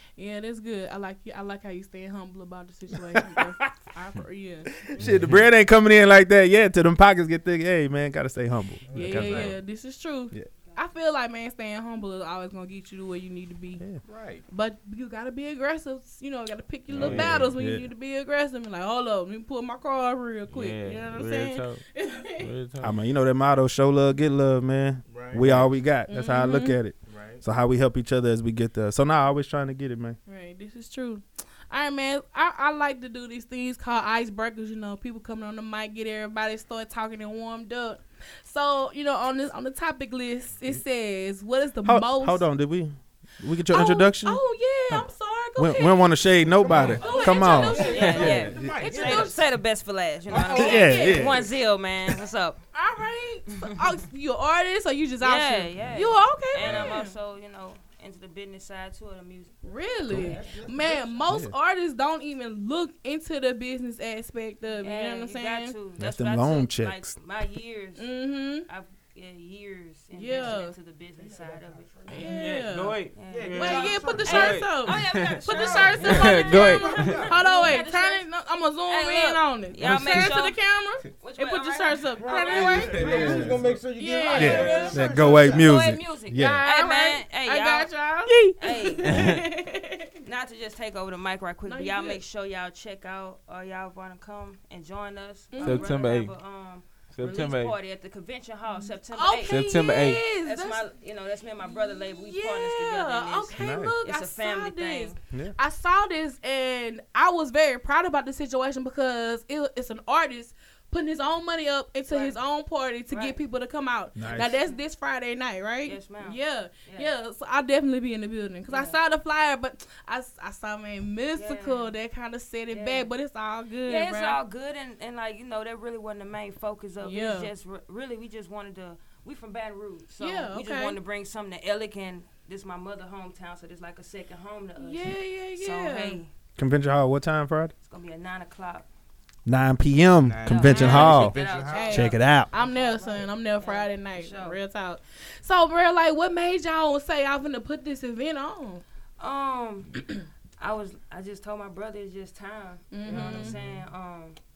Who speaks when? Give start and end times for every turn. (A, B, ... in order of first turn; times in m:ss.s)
0:00.2-0:04.8 A
0:03.1-0:03.7 B
0:04.7-0:09.6 B
0:05.0-0:05.4 C
0:08.9-0:09.6 D
0:08.9-0:13.8 A
0:14.0-0:14.4 D
0:14.5-0:22.5 A
0:16.9-0:17.5 C
0:17.0-0:17.9 B
0:20.5-0:21.8 C
0:22.4-0:22.9 C
0:22.8-0:30.2 B
0:25.1-0:25.7 D
0:26.1-0:26.8 A
0:27.1-0:27.4 D
0:30.3-0:42.4 A
0:41.8-0:48.5 B
0:43.7-0:49.4 A
0:46.7-0:49.4 D
0:46.8-0:52.6 E
0:48.0-0:48.4 C
0:50.3-0:51.5 B
0:50.4-0:51.4 A
0:52.7-0:57.1 A
0:55.2-0:59.6 E
0:56.6-0:56.9 D
0:59.6-1:05.7 A
1:00.1-1:00.6 E
1:00.1-1:01.3 D
1:01.3-1:01.5 B
1:04.8-1:08.1 E
1:06.0-1:07.1 B
1:08.0-1:08.7 A
1:08.7-1:12.2 E
1:10.1-1:10.8 A
1:10.3-1:10.6 D
1:11.2-1:12.3 D
1:12.1-1:23.4 A
1:12.2-1:15.4 C
1:13.2-1:18.3 E
1:13.3-1:14.6 D
1:15.5-1:17.7 D
1:16.0-1:17.2 C
1:18.9-1:20.6 E
1:19.8-1:20.3 C
1:21.2-1:23.5 E
1:22.2-1:25.7 D
1:22.9-1:23.8 C
1:24.0-1:25.1 A
1:24.2-1:29.3 E
1:24.3-1:26.6 B
1:26.4-1:30.1 A
1:29.0-1:29.5 C
1:30.2-1:39.6 E
1:31.7-1:32.2 A
1:35.5-1:36.0 A
1:35.6-1:36.3 C
1:37.1-1:37.7 C
1:38.7-1:40.8 A
1:39.5-1:40.2 C
1:40.4-1:45.2 E
1:41.6-2:04.4 A
1:43.6-1:44.0 B
1:52.1-1:52.4 E
1:53.1-1:53.4 E
1:54.2-1:54.6 B
1:54.3-1:54.8 E
1:55.8-1:57.1 E
1:58.7-1:59.0 E
2:01.4-2:01.9 E
2:02.7-2:03.1 E
2:03.8-2:16.3 E
2:07.0-2:07.5 A
2:10.2-2:11.0 A
2:14.8-2:16.2 A
2:16.6-2:17.7 B
2:17.8-2:18.9 E
2:19.5-2:21.4 B
2:20.2-2:23.2 D
2:20.5-2:24.6 E
2:21.6-2:28.8 A
2:21.9-2:22.5 B
2:29.2-2:30.0 E
2:30.6-2:34.4 E
2:32.9-2:33.6 A
2:33.1-2:33.8 D